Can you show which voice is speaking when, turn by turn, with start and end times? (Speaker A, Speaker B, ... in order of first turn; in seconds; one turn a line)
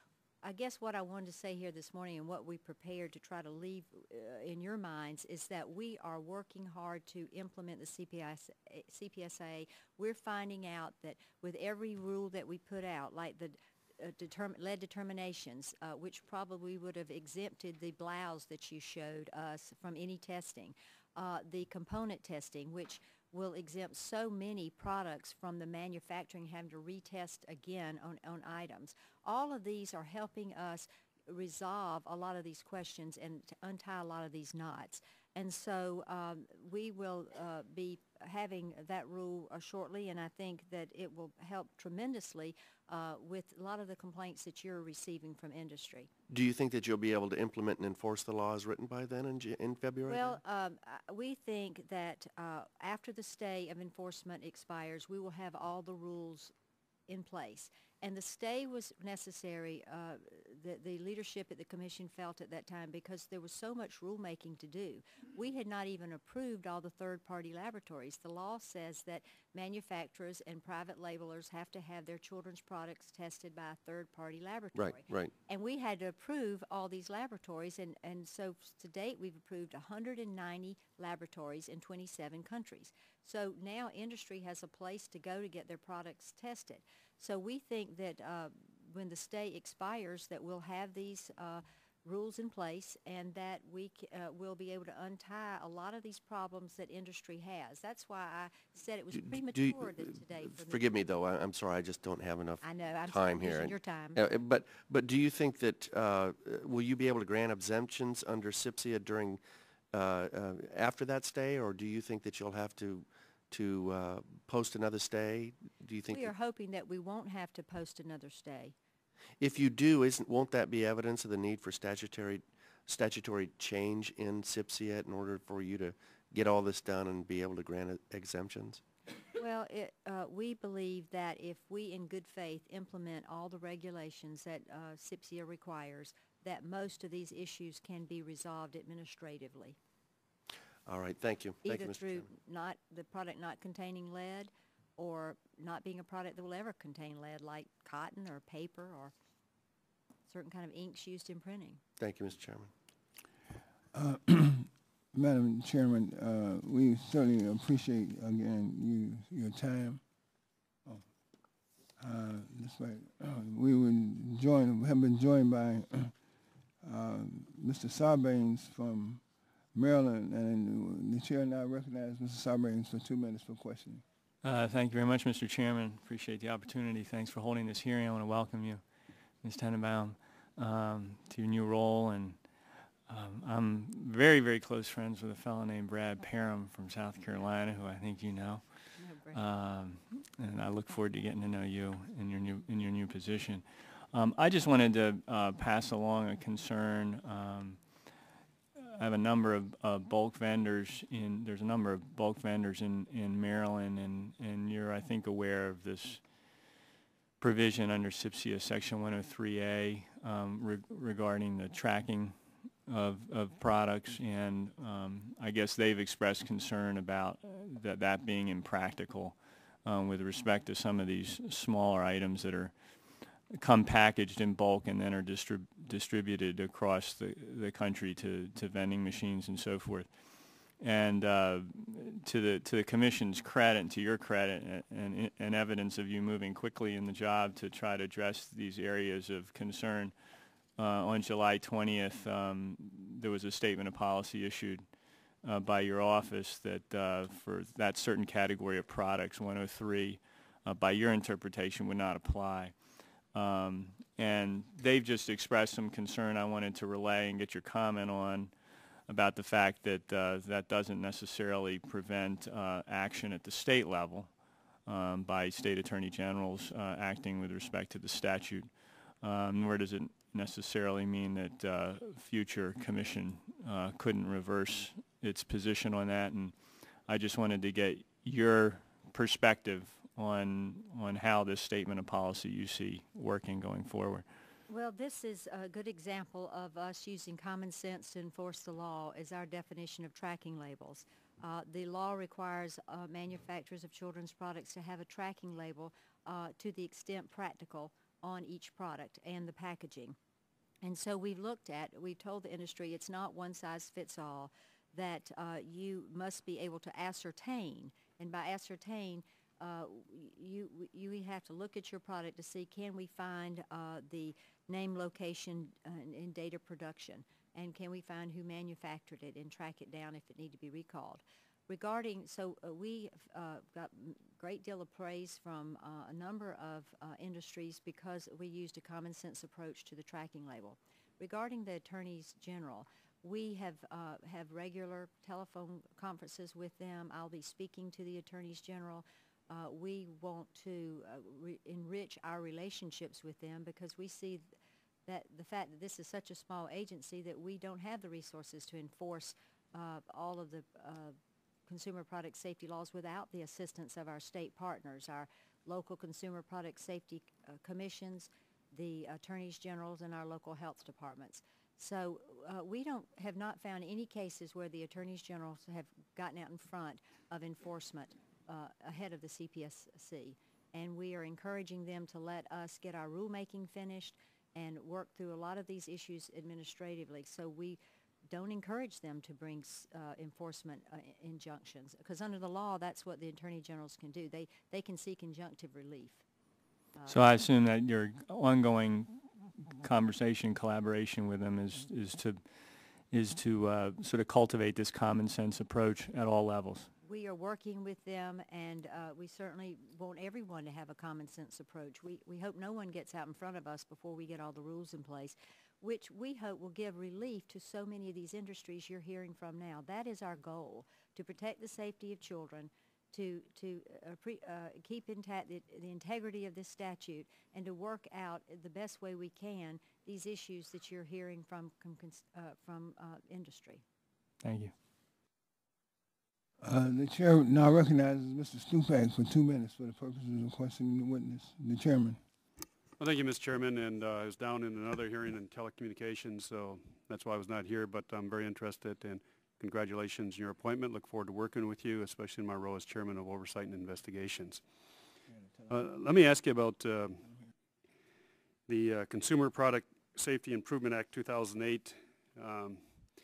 Speaker A: 0.4-46.1
Speaker B: 46.3-50.4
Speaker A: 50.1-56.5
Speaker A: 57.1-100.8
Speaker B: 74.7-75.3
Speaker B: 99.1-109.4
Speaker A: 102.6-104.2
Speaker B: 109.9-116.3
Speaker A: 116.1-118.7
Speaker B: 119.4-128.8
Speaker A: 129.4-139.8
Speaker B: 140.8-142.3
Speaker A: 141.6-149.1
Speaker A: 150.3-151.8
Speaker B: 152.0-152.7
Speaker C: 153.9-160.0
Speaker C: 162.0-166.1
Speaker C: 166.8-169.2
Speaker C: 169.7-174.0
Speaker D: 174.4-178.8
Speaker D: 179.4-182.4
Speaker D: 183.1-197.8
Speaker A: 189.0-189.4
Speaker D: 198.8-206.2
Speaker D: 207.4-222.7
Speaker D: 223.5-240.1
Speaker D: 240.8-244.8
Speaker D: 245.4-252.7
Speaker D: 253.3-258.5
Speaker D: 259.1-264.3
Speaker D: 264.9-276.5
Speaker D: 277.1-284.2
Speaker A: 284.7-300.2
Speaker A: 300.8-344.5
Speaker A: 345.1-351.1
Speaker A: 351.7-386.2
Speaker A: 386.9-387.2
Speaker D: 387.1-389.1
Speaker D: 389.8-392.4
Speaker D: 393.1-396.9
Speaker A: 397.0-423.8
Speaker D: 424.4-424.7
Speaker C: 426.6-432.2
Speaker E: 433.0-444.6
Speaker E: 445.7-447.2
Speaker E: 448.7-452.8